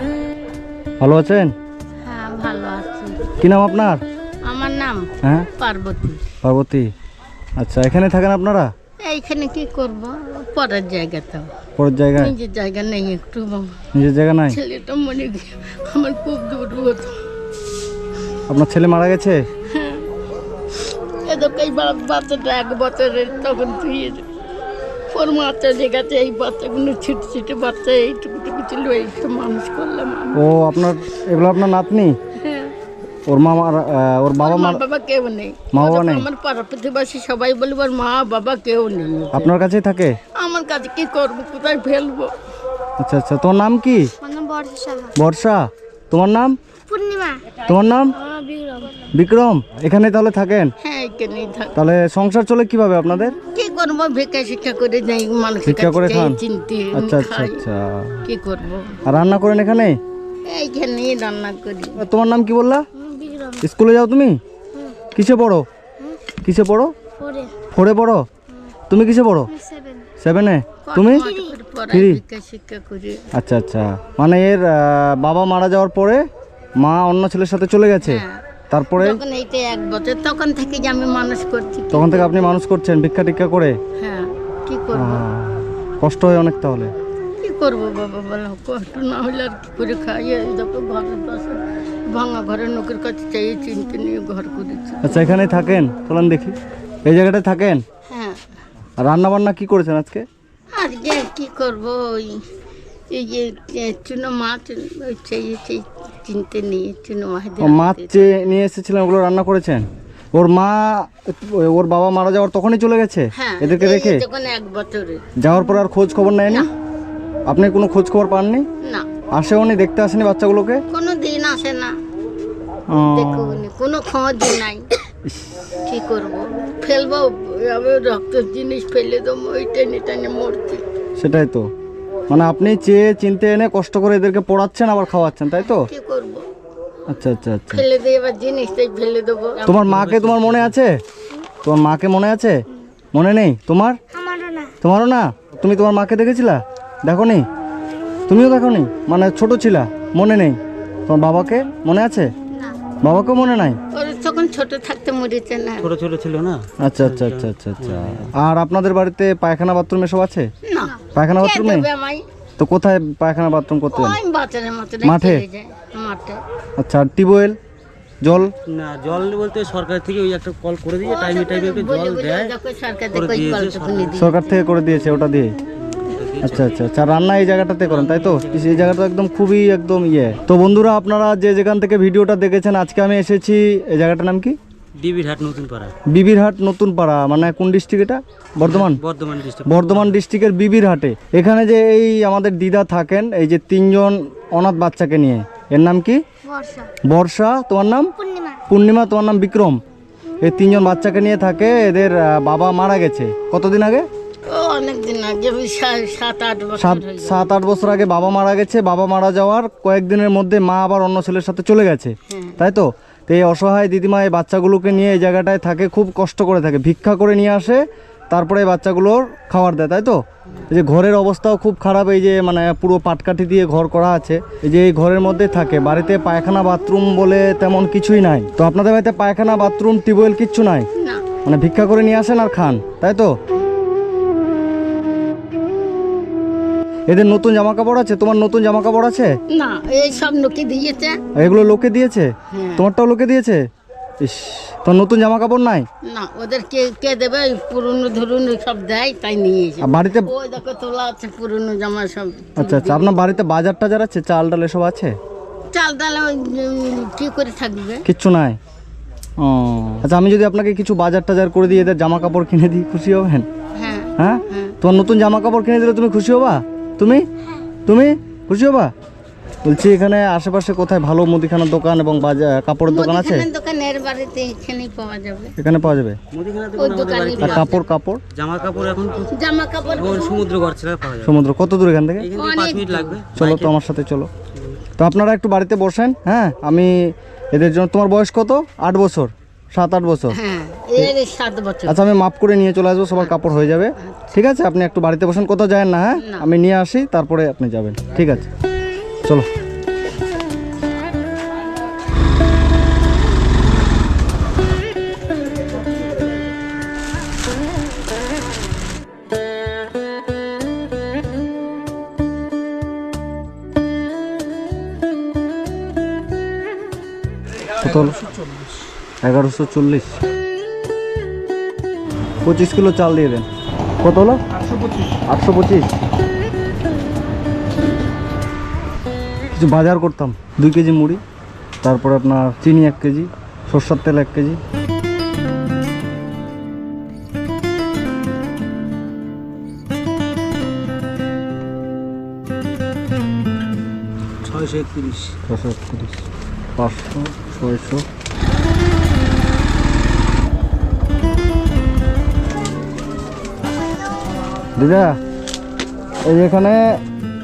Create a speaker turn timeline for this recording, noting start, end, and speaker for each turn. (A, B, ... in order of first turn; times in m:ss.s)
0:01.0-0:01.5 A
0:02.0-0:03.3 B
0:03.4-0:04.0 A
0:04.4-0:06.4 B
0:05.2-0:05.5 A
0:06.4-0:06.9 A
0:07.6-0:08.7 A
0:09.0-0:11.5 B
0:11.8-0:12.4 A
0:12.1-0:13.9 B
0:13.9-0:14.6 A
0:14.5-0:17.2 B
0:18.5-0:19.4 A
0:19.6-0:20.1 B
0:20.7-0:24.3 B
0:25.1-0:30.4 B
0:30.3-0:32.2 A
0:32.3-0:32.7 B
0:33.3-0:34.8 A
0:34.4-0:39.5 B
0:35.7-0:36.3 A
0:39.3-0:40.2 A
0:40.2-0:42.3 B
0:43.0-0:44.2 A
0:44.2-0:45.1 C
0:45.1-0:46.6 A
0:46.9-0:47.6 C
0:47.6-0:48.2 A
0:48.2-0:49.1 C
0:49.0-0:50.7 A
0:50.8-0:51.8 B
0:51.7-0:53.4 A
0:53.4-0:57.6 B
0:55.6-0:56.4 A
0:56.9-0:58.2 A
0:58.2-0:59.0 B
0:59.0-1:00.0 A
1:00.5-1:02.0 B
1:02.0-1:02.8 A
1:03.0-1:03.6 C
1:03.6-1:04.4 A
1:05.1-1:05.6 A
1:06.4-1:06.9 A
1:07.2-1:07.6 C
1:07.7-1:08.2 A
1:08.9-1:09.6 A
1:09.5-1:10.1 C
1:10.2-1:11.3 A
1:10.8-1:13.3 B
1:11.9-1:12.2 A
1:13.3-1:16.2 A
1:16.8-1:19.2 A
1:18.0-1:22.4 B
1:21.9-1:23.8 A
1:24.0-1:25.3 B
1:24.9-1:26.9 A
1:27.4-1:35.3 B
1:35.0-1:37.8 A
1:38.0-1:38.4 B
1:39.0-1:40.2 A
1:40.7-1:42.4 B
1:43.1-1:48.6 B
1:47.6-1:54.2 A
1:53.3-1:55.3 B
1:55.4-1:56.7 A
1:57.5-1:58.6 A
1:58.8-1:59.1 B
1:59.3-2:00.8 A
2:00.9-2:01.9 B
2:02.9-2:03.6 A
2:02.9-2:04.9 B
2:05.2-2:05.6 A
2:05.8-2:10.8 B
2:11.2-2:11.7 A
2:12.3-2:15.9 A
2:15.5-2:16.4 B
2:17.1-2:17.8 A
2:17.7-2:19.7 B
2:19.6-2:21.0 A
2:19.7-2:20.8 D
2:21.6-2:24.0 A
2:24.1-2:24.7 C
2:24.8-2:27.4 A
2:28.3-2:32.3 A
2:33.0-2:33.8 A
2:33.9-2:35.9 B
2:35.8-2:38.3 D
2:36.8-2:40.5 A
2:40.6-2:42.2 B
2:41.1-2:41.9 A
2:42.6-2:44.2 A
2:43.9-2:46.4 B
2:45.0-2:45.4 A
2:46.8-2:47.6 A
2:48.2-2:48.5 A
2:48.6-2:52.5 D
2:51.0-2:54.6 B
2:53.1-2:54.2 D
2:54.1-2:55.6 A
2:55.8-2:56.8 D
2:56.4-3:04.6 A
2:57.8-2:59.0 D
3:05.0-3:05.9 D
3:06.0-3:09.0 A
3:08.6-3:10.1 D
3:09.6-3:16.2 A
3:16.4-3:16.9 C
3:17.0-3:19.8 A
3:18.2-3:18.6 C
3:20.4-3:24.0 A
3:24.5-3:27.6 B
3:26.8-3:50.9 A
3:32.3-3:32.6 B
3:51.0-3:51.3 B
3:51.4-3:53.3 A
3:57.1-3:59.4 A
3:59.5-4:01.3 B
4:01.3-4:03.6 A
4:02.5-4:02.9 B
4:04.2-4:05.8 A
4:06.0-4:13.2 B
4:09.8-4:10.3 A
4:12.6-4:15.1 A
4:15.7-4:18.0 B
4:18.0-4:18.6 A
4:19.4-4:23.5 A
4:23.8-4:24.8 B
4:24.2-4:27.3 A
4:27.8-4:28.9 A
4:29.6-4:33.5 A
4:32.9-4:35.5 B
4:35.6-4:36.2 A
4:36.3-4:37.8 D
4:36.7-4:37.8 B
4:37.4-4:38.2 A
4:38.3-4:39.3 D
4:39.2-4:40.5 B
4:39.9-4:41.4 D
4:41.2-4:42.3 A
4:42.2-4:43.7 D
4:42.3-4:43.2 B
4:43.3-4:44.3 A
4:45.0-4:50.4 A
4:50.3-4:52.0 B
4:51.8-4:58.5 A
4:53.2-4:54.4 B
4:56.2-4:56.5 B
5:17.8-5:18.3 A
5:19.2-5:20.2 A
5:22.4-5:23.4 A
5:24.0-5:25.9 A
5:29.5-5:31.2 A
5:31.8-5:34.6 A
5:44.4-5:45.4 D
5:45.5-5:48.0 A
5:54.8-5:55.2 A
5:56.2-5:57.0 A